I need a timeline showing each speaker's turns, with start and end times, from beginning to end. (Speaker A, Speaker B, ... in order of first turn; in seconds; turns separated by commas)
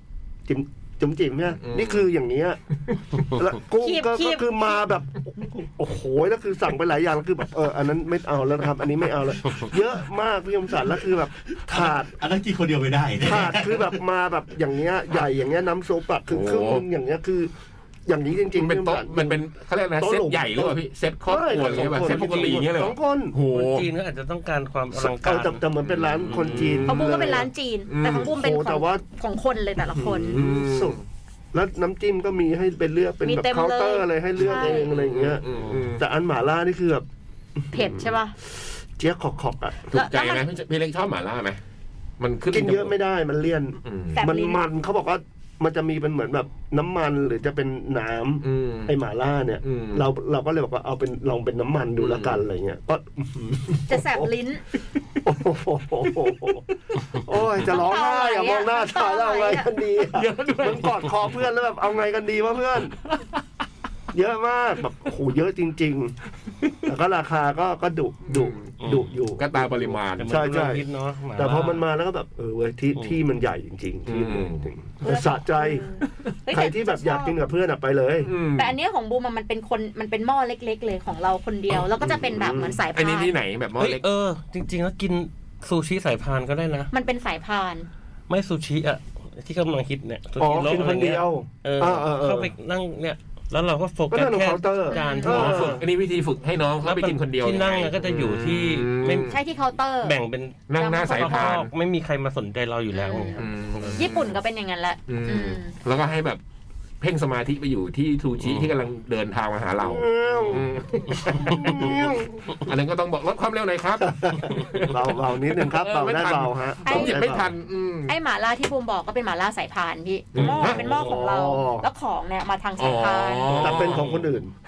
Speaker A: 0.5-2.6, Speaker B: 1.6-2.1, Speaker B: 2.9-3.2, Speaker A: 3.3-12.2, Speaker C: 3.8-4.8, Speaker D: 11.7-14.0, Speaker A: 13.2-17.5, Speaker B: 16.3-16.8, Speaker A: 18.1-19.4, Speaker B: 18.6-23.9, Speaker A: 20.0-23.4, Speaker E: 23.5-25.6, Speaker A: 24.9-27.5, Speaker B: 25.8-27.2, Speaker E: 26.3-26.7, Speaker C: 26.9-30.4, Speaker B: 27.9-28.3, Speaker A: 28.1-29.0, Speaker A: 29.9-31.0, Speaker B: 30.3-31.0, Speaker A: 31.5-35.4, Speaker C: 33.2-34.9, Speaker B: 34.4-36.0, Speaker E: 35.5-35.9, Speaker A: 36.0-37.1, Speaker A: 37.6-39.9, Speaker C: 37.7-38.4, Speaker B: 39.9-41.6, Speaker C: 39.9-40.5, Speaker B: 42.2-43.0, Speaker A: 42.5-54.3, Speaker B: 43.8-44.2, Speaker C: 44.1-44.6, Speaker B: 48.4-48.9, Speaker B: 49.6-50.1, Speaker B: 52.0-52.4, Speaker C: 53.9-54.6, Speaker A: 55.2-63.0, Speaker C: 57.6-59.7, Speaker B: 60.1-61.2, Speaker A: 64.1-66.2, Speaker A: 66.9-69.7, Speaker B: 68.3-68.8, Speaker E: 68.8-69.1, Speaker B: 69.4-70.4, Speaker E: 70.2-71.8, Speaker A: 70.3-75.9, Speaker B: 74.1-74.7, Speaker C: 75.0-77.3, Speaker A: 76.5-78.3, Speaker B: 78.2-78.8, Speaker C: 78.6-83.3, Speaker A: 82.1-82.8, Speaker B: 82.9-84.0, Speaker E: 83.8-86.9, Speaker C: 86.9-87.9, Speaker E: 88.3-95.8, Speaker A: 90.4-92.5, Speaker A: 94.1-95.8, Speaker C: 94.9-95.5, Speaker B: 95.2-99.4, Speaker E: 96.8-99.4, Speaker C: 99.3-100.2, Speaker E: 100.0-104.1, Speaker B: 100.7-101.7, Speaker C: 100.8-101.6, Speaker C: 102.9-103.4, Speaker B: 103.4-104.4, Speaker C: 104.0-105.7, Speaker B: 105.1-106.4, Speaker B: 107.0-118.1, Speaker A: 109.8-110.7, Speaker A: 111.3-112.4, Speaker A: 114.0-117.5, Speaker C: 116.8-117.3, Speaker C: 118.1-123.9, Speaker B: 120.3-120.9, Speaker A: 120.4-121.9, Speaker B: 122.8-124.3, Speaker A: 123.6-124.5